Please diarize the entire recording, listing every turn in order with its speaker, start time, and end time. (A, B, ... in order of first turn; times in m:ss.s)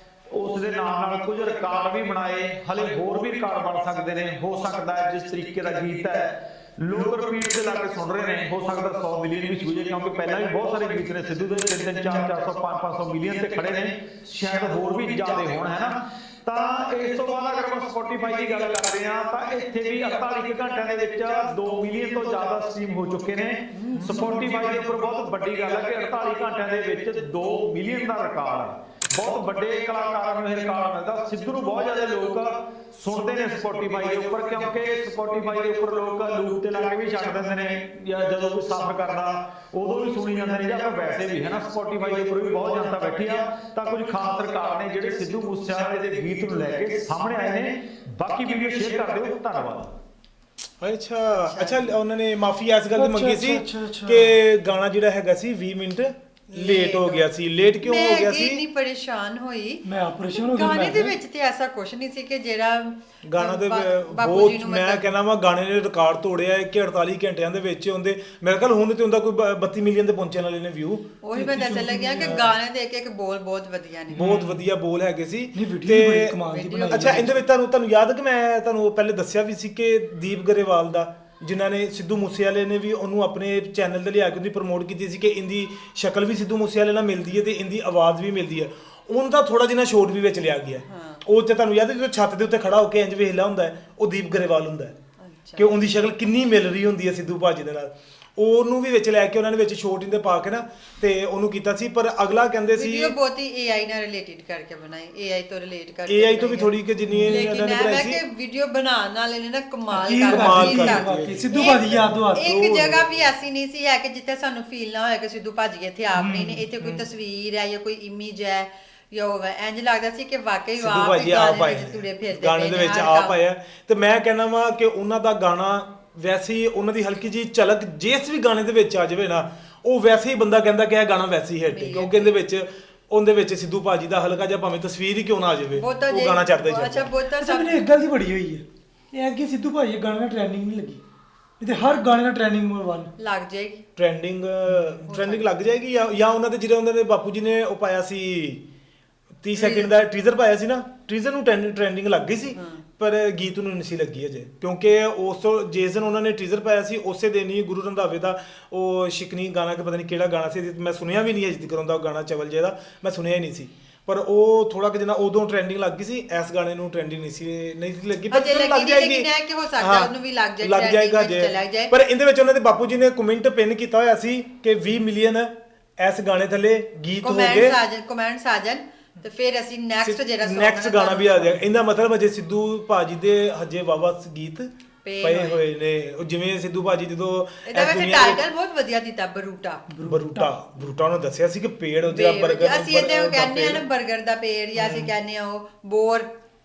0:00.3-0:49.9 A
0:23.8-0:24.4 B
0:50.8-0:58.6 C
0:51.4-0:52.0 D
0:52.9-0:54.4 B
0:56.5-1:05.0 D
0:59.8-1:01.2 B
1:03.3-1:11.1 C
1:11.2-1:14.2 D
1:11.3-1:12.5 B
1:14.1-1:35.0 C
1:14.2-1:14.6 B
1:15.5-1:17.4 B
1:16.5-1:17.3 D
1:30.8-1:31.3 D
1:35.2-1:35.7 D
1:35.6-1:43.1 C
1:42.8-1:46.8 D
1:46.1-1:48.2 C
1:47.1-1:47.4 B
1:47.3-2:03.4 D
1:49.9-1:53.1 B
1:50.2-1:52.1 C
1:56.2-1:56.6 B
2:00.8-2:17.1 C
2:11.6-2:12.4 D
2:15.7-2:17.9 D
2:17.4-2:21.0 B
2:21.6-2:23.1 B
2:23.2-2:23.9 D
2:24.0-2:28.6 C
2:25.0-2:25.5 D
2:29.4-2:57.8 C
2:29.6-2:29.9 D
2:32.5-2:32.8 D
2:48.3-2:51.9 D
2:57.2-3:01.7 D
3:00.0-3:04.7 C
3:05.0-3:05.6 D
3:05.2-3:08.4 C
3:07.7-3:09.9 D
3:09.9-3:10.5 B
3:10.0-3:13.8 C
3:12.1-3:16.3 D